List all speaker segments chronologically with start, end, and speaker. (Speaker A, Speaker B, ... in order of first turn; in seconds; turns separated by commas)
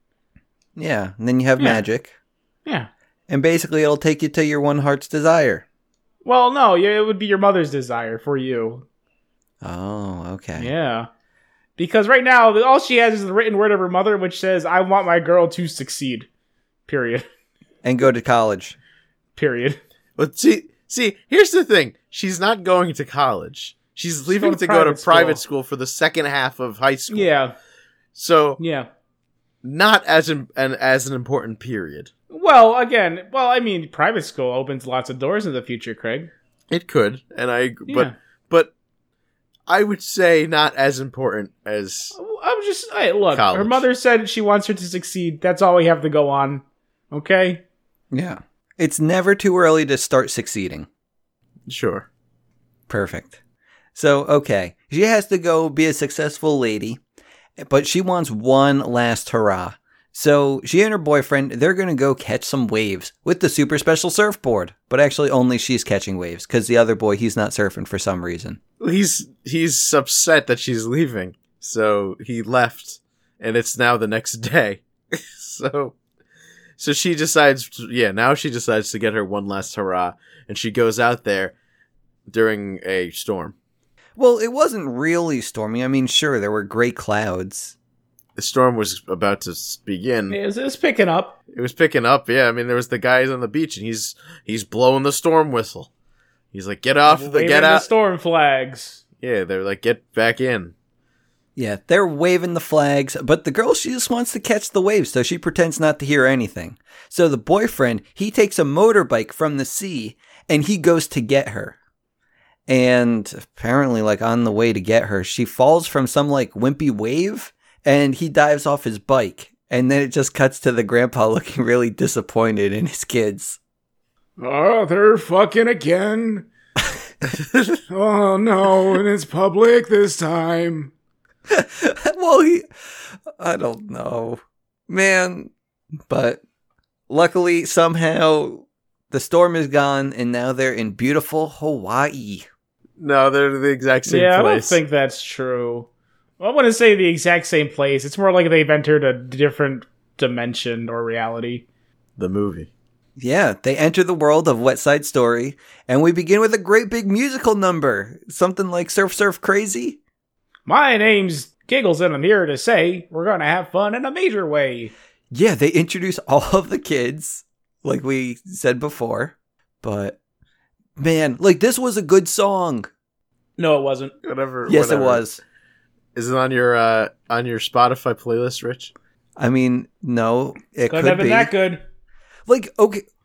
Speaker A: 0.8-2.1, Speaker B: 1.6-1.8, Speaker A: 3.3-5.6, Speaker B: 6.2-8.8, Speaker A: 9.6-10.7, Speaker B: 10.6-11.1, Speaker B: 11.8-16.3, Speaker B: 16.9-17.3, Speaker A: 17.8-18.8, Speaker B: 19.4-19.8, Speaker C: 20.2-27.3, Speaker B: 24.3-25.4, Speaker B: 27.1-27.5, Speaker C: 28.2-28.6, Speaker B: 28.6-28.9, Speaker C: 29.6-32.1, Speaker B: 32.3-36.3, Speaker C: 36.7-38.7, Speaker B: 37.9-38.1, Speaker C: 39.7-42.2, Speaker B: 42.1-47.6, Speaker C: 43.3-43.9, Speaker A: 48.1-50.9, Speaker C: 51.7-52.1, Speaker A: 52.9-53.4, Speaker A: 54.0-57.0, Speaker A: 57.6-68.6, Speaker C: 68.8-76.0, Speaker C: 76.8-81.5, Speaker C: 82.3-83.5, Speaker A: 84.2-87.8, Speaker C: 88.4-90.4, Speaker B: 90.3-91.3, Speaker C: 91.5-95.9, Speaker C: 96.5-97.9, Speaker B: 97.1-99.0, Speaker C: 99.2-100.7, Speaker A: 101.6-111.8, Speaker A: 112.7-123.6, Speaker B: 124.4-126.5, Speaker C: 127.3-127.8, Speaker B: 127.9-130.9, Speaker A: 131.5-132.7, Speaker A: 133.3-135.5, Speaker A: 136.1-136.4, Speaker A: 137.1-142.5, Speaker C: 143.0-144.8, Speaker B: 144.1-145.9, Speaker B: 146.4-151.7, Speaker C: 152.2-152.7, Speaker A: 153.2-160.0, Speaker B: 160.7-164.9, Speaker A: 165.3-170.2, Speaker A: 171.0-172.9, Speaker B: 173.6-174.1, Speaker C: 174.2-175.2, Speaker A: 174.7-175.4, Speaker C: 176.2-178.9, Speaker A: 179.4-181.5, Speaker B: 180.9-181.8, Speaker A: 182.5-183.1